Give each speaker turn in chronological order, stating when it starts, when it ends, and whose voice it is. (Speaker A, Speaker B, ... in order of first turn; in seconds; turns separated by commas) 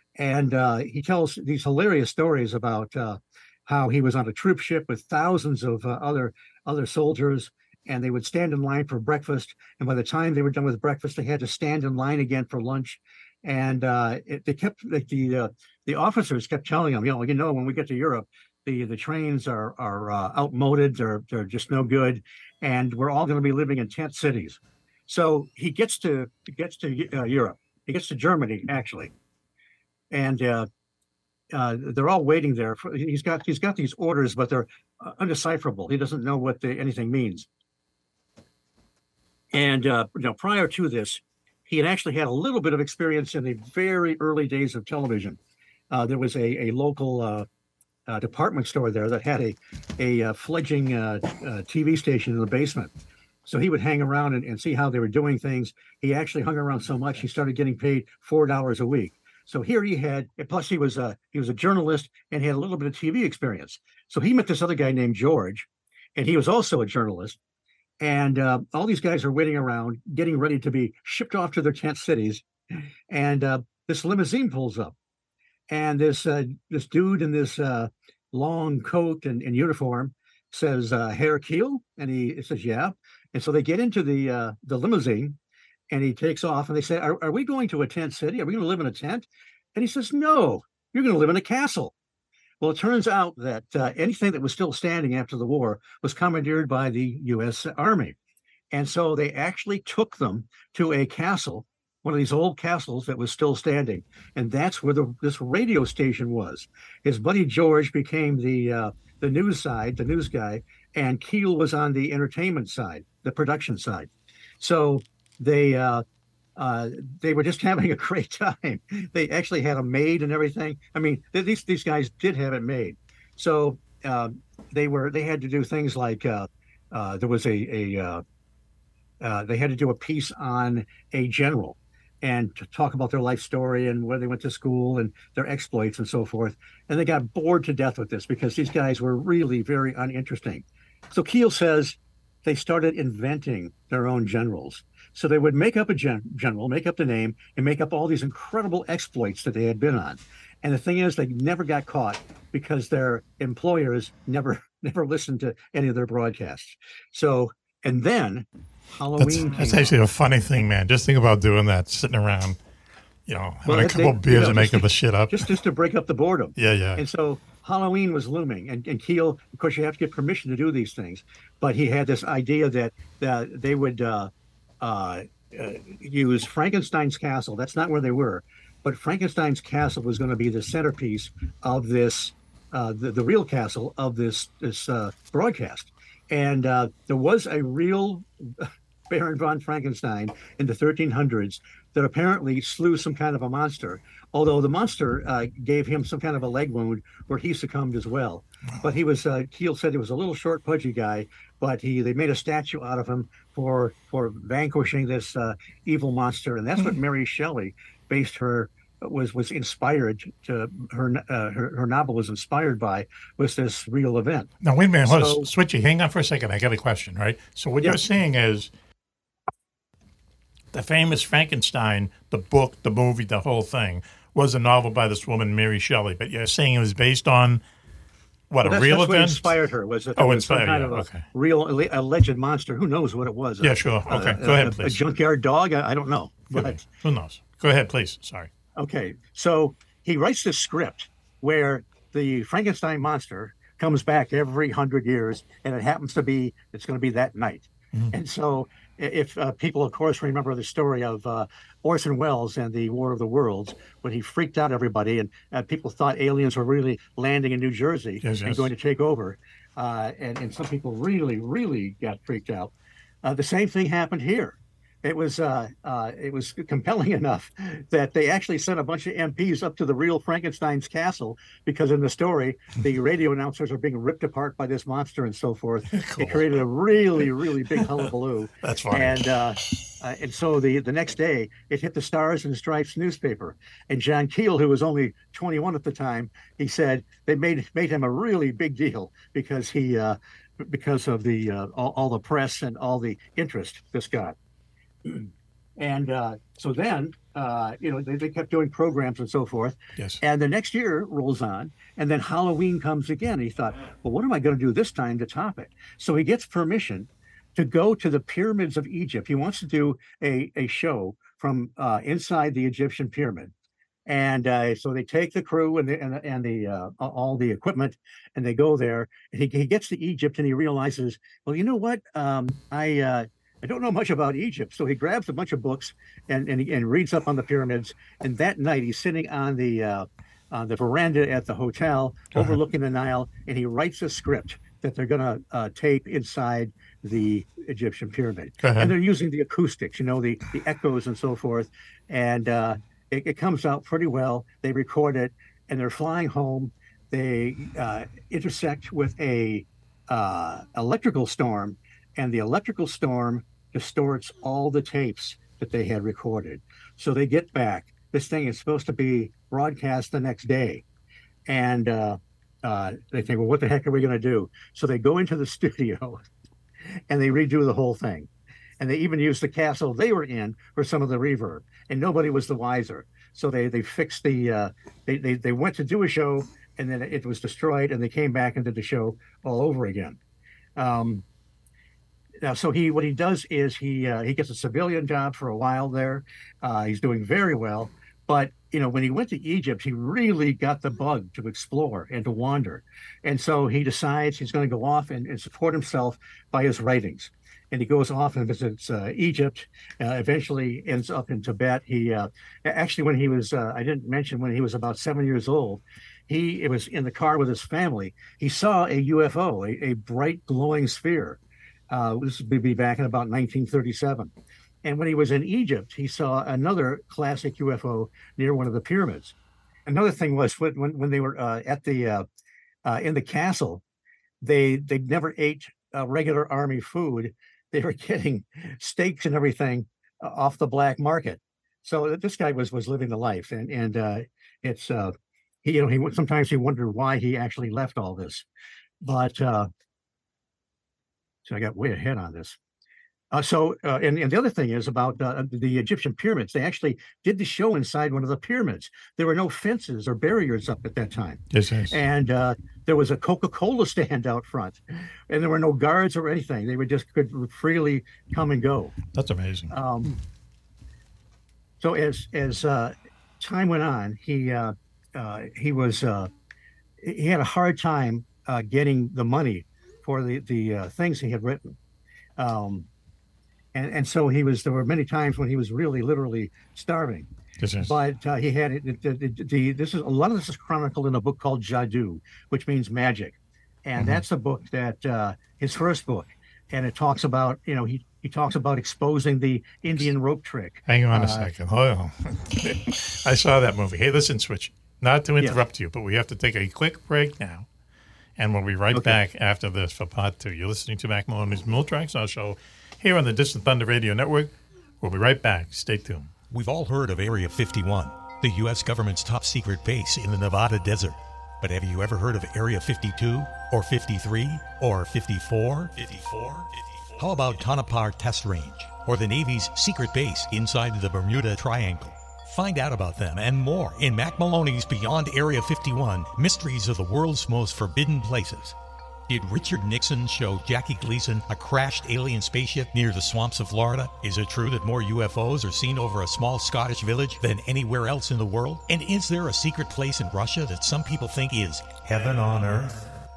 Speaker A: 0.2-29.1, Speaker A: 30.1-30.7, Speaker A: 31.5-37.5, Speaker A: 39.5-45.4, Speaker A: 45.9-47.5, Speaker A: 48.1-52.9, Speaker A: 53.5-67.4, Speaker A: 68.0-72.5, Speaker A: 73.1-74.9, Speaker A: 75.7-85.4, Speaker A: 85.9-91.9, Speaker A: 92.6-98.2, Speaker A: 98.7-116.0, Speaker A: 116.6-128.2, Speaker A: 129.2-159.9, Speaker B: 159.2-162.6, Speaker B: 163.3-165.5, Speaker A: 163.7-174.3, Speaker B: 166.6-167.0, Speaker A: 174.8-214.5, Speaker B: 214.6-218.7, Speaker A: 215.0-215.5, Speaker B: 220.7-227.6, Speaker B: 228.5-229.5, Speaker A: 228.6-236.8, Speaker B: 230.2-231.2, Speaker B: 233.6-235.0, Speaker B: 236.5-238.5, Speaker A: 238.8-262.7, Speaker B: 258.2-258.7, Speaker A: 263.2-294.4, Speaker B: 275.9-276.6, Speaker B: 278.6-279.2, Speaker A: 295.1-313.5, Speaker A: 314.1-360.8, Speaker B: 338.6-338.9, Speaker A: 361.5-366.2, Speaker A: 367.1-368.3, Speaker A: 368.8-380.2, Speaker A: 380.8-381.2, Speaker A: 382.4-414.3, Speaker A: 414.8-419.3, Speaker A: 419.9-422.3, Speaker A: 422.9-423.8, Speaker A: 424.4-438.5, Speaker A: 439.0-439.7, Speaker A: 441.5-442.6, Speaker A: 443.3-458.9, Speaker B: 451.5-452.0, Speaker B: 459.1-459.7, Speaker A: 459.7-460.1, Speaker A: 461.8-466.3, Speaker A: 467.0-471.8, Speaker A: 472.4-472.9, Speaker A: 473.7-477.3, Speaker B: 477.6-477.9, Speaker A: 477.8-491.5, Speaker B: 484.0-484.2, Speaker B: 490.9-497.7, Speaker B: 498.4-506.3, Speaker A: 498.9-499.2, Speaker C: 506.5-528.8, Speaker C: 529.3-543.0